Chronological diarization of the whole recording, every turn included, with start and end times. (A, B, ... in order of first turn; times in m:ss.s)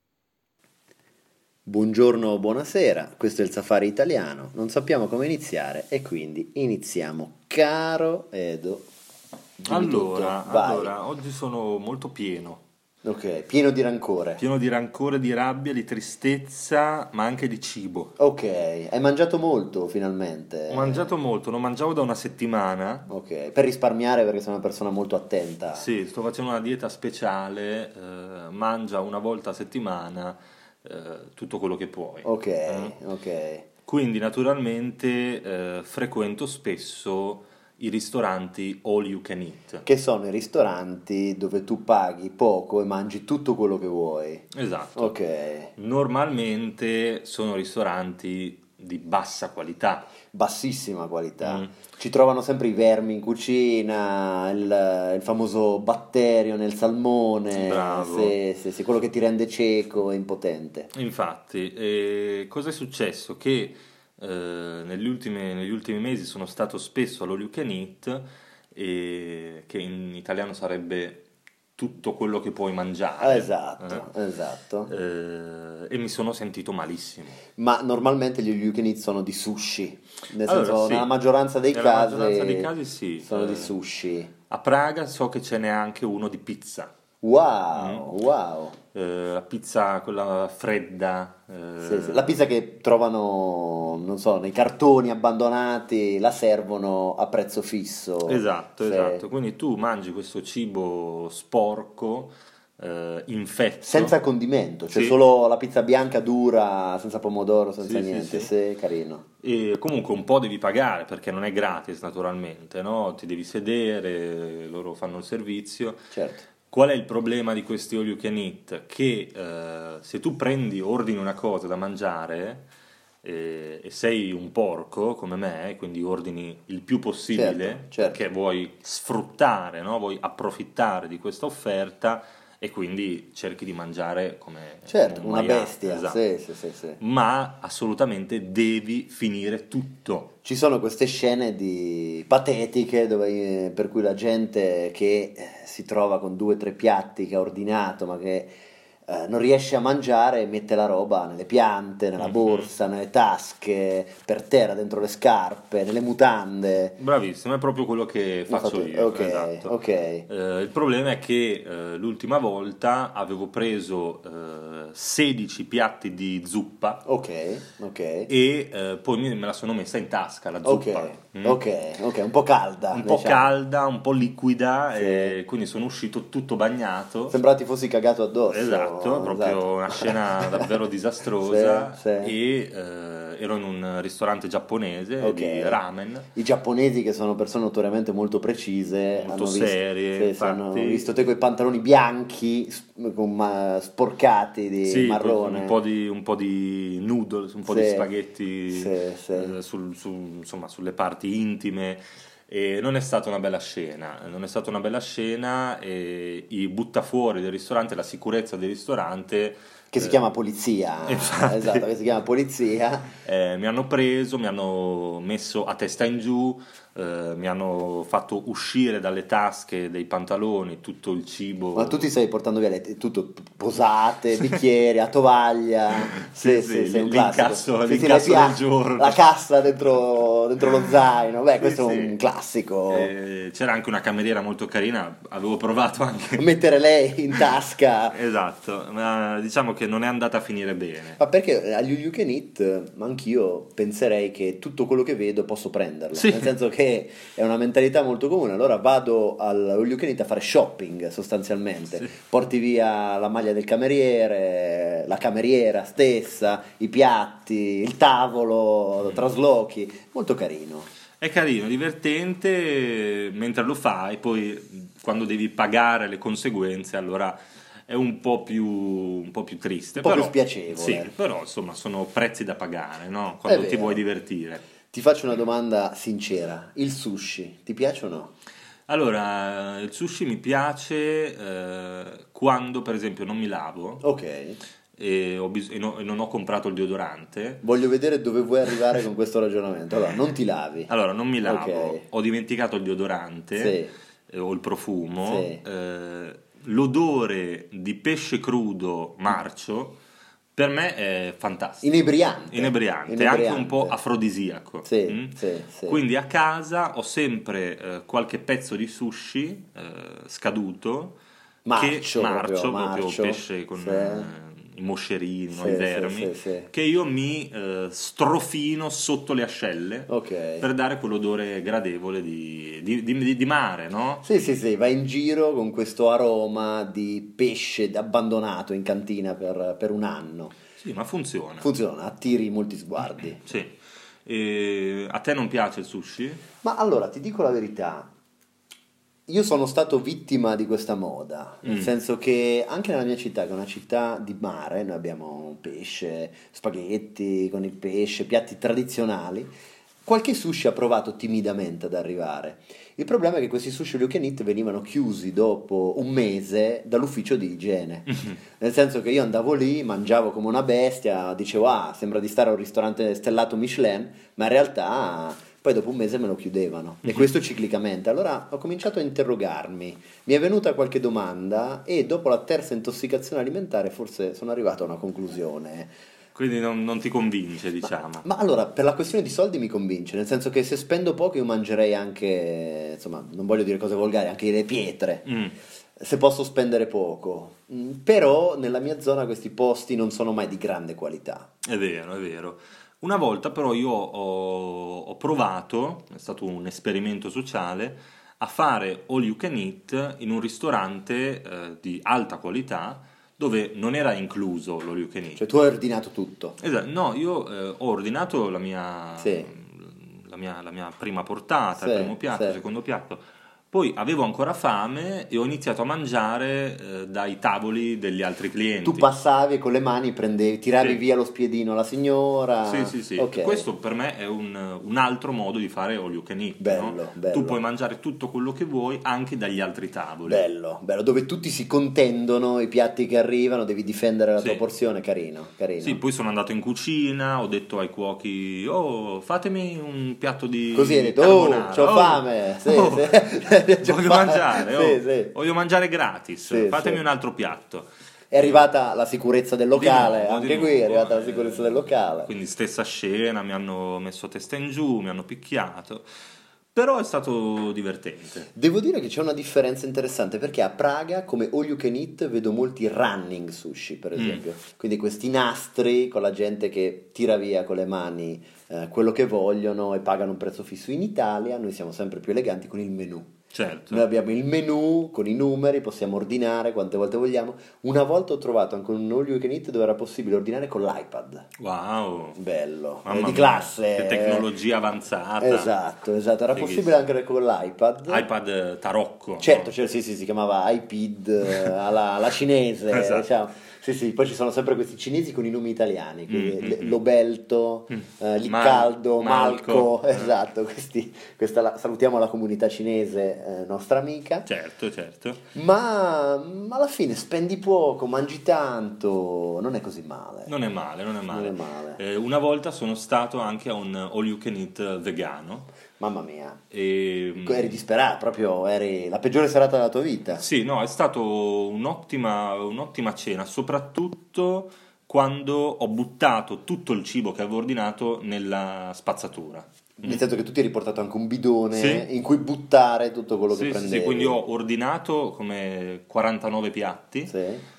0:01.7-0:08.9 A
0:09.6-0:10.9 A
0:09.7-0:12.6 B
0:13.0-0:14.4 A
0:14.4-0:18.1 B
0:18.2-0:21.1 A
0:20.7-0:23.1 B
0:23.1-0:25.9 A
0:25.8-0:32.9 B
0:32.2-0:33.7 A
0:33.9-0:39.8 B
0:39.8-0:45.7 A
0:44.5-0:45.1 B
0:45.8-0:50.1 B
0:50.3-1:00.9 A
0:51.4-0:51.7 B
0:57.5-0:58.4 B
1:00.9-1:11.2 B
1:11.8-1:14.0 B
1:13.2-1:14.9 A
1:14.9-1:17.4 B
1:17.6-1:22.7 A
1:20.5-1:21.1 B
1:21.7-1:23.7 B
1:23.2-1:24.3 A
1:24.5-1:26.9 B
1:27.2-1:28.8 A
1:27.7-1:28.1 B
1:28.9-1:32.4 B
1:31.8-1:39.2 A
1:38.3-1:44.2 B
1:43.8-1:49.2 A
1:44.9-1:45.2 B
1:47.8-1:48.5 B
1:49.4-1:56.1 B
1:56.1-1:56.4 A
1:56.7-2:02.7 B
2:03.2-2:16.2 B
2:07.3-2:08.2 A
2:14.9-2:17.0 A
2:17.0-2:20.3 B
2:20.4-2:28.5 A
2:29.1-2:37.0 A
2:32.2-2:32.7 B
2:37.0-2:39.7 B
2:38.5-2:40.3 A
2:40.3-2:47.0 B
2:47.1-2:48.3 A
2:48.3-2:51.6 B
2:50.6-2:53.6 A
2:52.9-2:57.4 B
2:54.9-2:55.4 A
2:57.3-3:00.8 A
2:58.5-3:06.3 B
3:01.4-3:02.3 A
3:05.2-3:05.8 A
3:06.3-3:15.8 A
3:09.2-3:11.1 B
3:14.8-3:30.2 B
3:17.7-3:18.1 A
3:18.7-3:19.6 A
3:29.9-3:33.1 A
3:31.1-3:31.8 B
3:33.2-3:42.1 B
3:41.8-3:53.1 A
3:46.2-3:49.2 B
3:51.6-3:52.2 B
3:52.9-3:56.5 B
3:56.4-3:58.2 A
3:58.1-4:01.2 B
4:01.2-4:20.9 A
4:06.1-4:06.5 B
4:21.2-4:34.6 B
4:30.0-4:31.1 A
4:33.4-4:34.0 A
4:34.9-4:38.3 A
4:38.9-4:44.0 B
4:44.0-4:44.6 A
4:45.0-4:47.6 B
4:47.6-4:50.9 A
4:50.9-5:00.0 B
4:51.4-4:52.0 A
4:53.6-4:53.9 A
4:55.2-4:55.6 A
5:00.6-5:11.2 B
5:01.8-5:04.0 A
5:04.8-5:06.0 A
5:11.7-5:14.3 A
5:11.7-5:20.1 B
5:15.5-5:16.7 A
5:20.1-5:20.7 A
5:20.6-5:24.2 B
5:24.2-5:30.6 A
5:30.8-5:31.7 B
5:31.6-5:33.5 A
5:33.4-5:36.4 B
5:36.6-5:38.1 A
5:39.3-5:49.5 A
5:41.6-5:41.9 B
5:50.0-6:15.9 A
6:16.4-6:18.3 B
6:18.2-6:25.3 A
6:25.3-6:25.5 B
6:26.0-6:31.5 A
6:31.6-6:45.4 B
6:45.4-6:46.6 A
6:46.6-6:59.1 B
6:49.2-6:49.5 A
6:51.8-6:52.6 A
6:58.8-7:03.7 A
7:02.7-7:10.4 B
7:06.6-7:07.6 A
7:10.3-7:16.0 A
7:14.4-7:14.6 B
7:15.8-7:27.9 B
7:20.7-7:25.3 A
7:26.5-7:27.0 A
7:28.3-7:32.3 A
7:29.7-7:36.1 B
7:36.8-7:38.5 B
7:38.5-7:53.3 A
7:44.2-7:44.4 B
7:53.5-7:54.1 B
7:53.9-8:01.5 A
8:01.6-8:02.4 B
8:02.4-8:04.5 A
8:03.0-8:05.7 B
8:05.4-8:08.3 A
8:06.5-8:07.0 B
8:08.1-8:09.7 B
8:09.4-8:24.5 A
8:12.9-8:13.3 B
8:16.3-8:17.0 B
8:17.9-8:20.3 B
8:24.5-8:25.4 B
8:25.5-8:30.5 A
8:30.5-8:35.7 B
8:31.3-8:32.0 A
8:36.0-8:36.6 A
8:36.7-8:37.8 B
8:37.4-8:40.4 A
8:40.4-8:50.2 B
8:50.0-8:54.4 A
8:51.7-8:52.1 B
8:53.5-8:57.3 B
8:57.3-8:57.6 A